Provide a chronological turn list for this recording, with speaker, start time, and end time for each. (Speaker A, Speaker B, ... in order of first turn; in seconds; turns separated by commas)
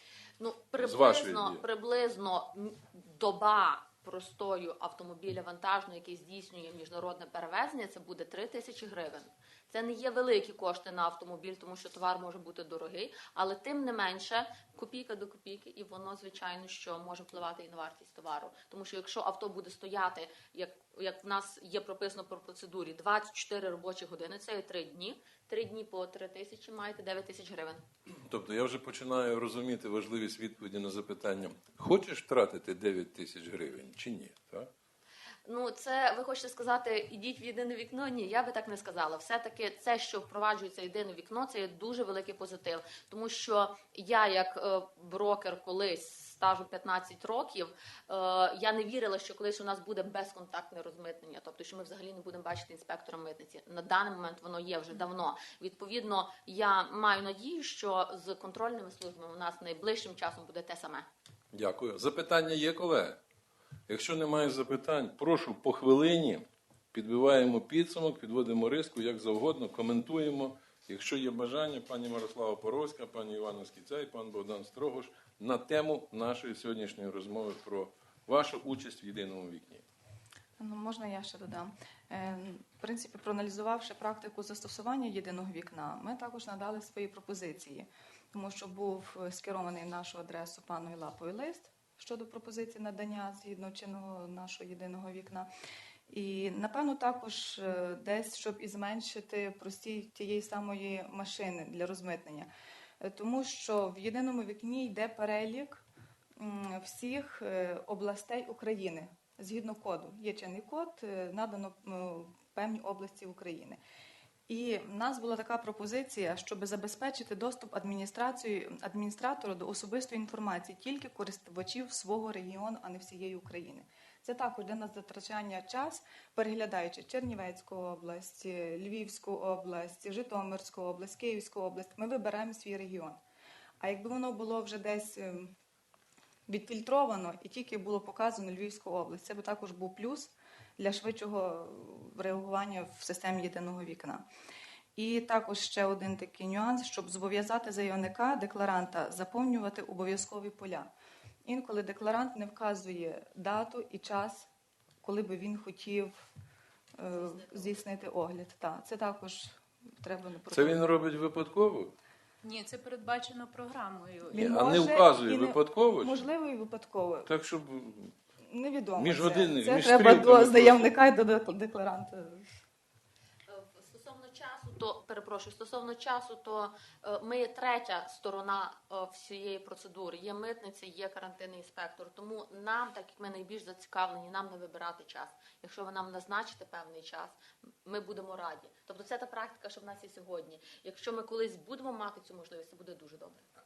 Speaker A: 0.4-27.8, Speaker B: 0.8-1.6, Speaker B: 28.2-34.7, Speaker A: 35.5-61.1, Speaker B: 61.5-63.2, Speaker B: 63.9-79.8, Speaker C: 80.6-95.5, Speaker C: 96.1-102.5, Speaker C: 103.0-105.8, Speaker C: 106.4-113.8, Speaker C: 114.5-133.2, Speaker C: 133.8-135.5, Speaker C: 136.5-144.2, Speaker C: 144.9-150.9, Speaker C: 151.4-154.5, Speaker C: 155.0-156.2, Speaker C: 156.9-160.8, Speaker A: 157.3-157.7, Speaker B: 160.5-161.9, Speaker D: 162.4-164.5, Speaker C: 164.3-167.3, Speaker B: 164.3-166.2, Speaker B: 167.2-168.1, Speaker C: 168.4-172.5, Speaker B: 169.0-170.9, Speaker A: 173.5-193.4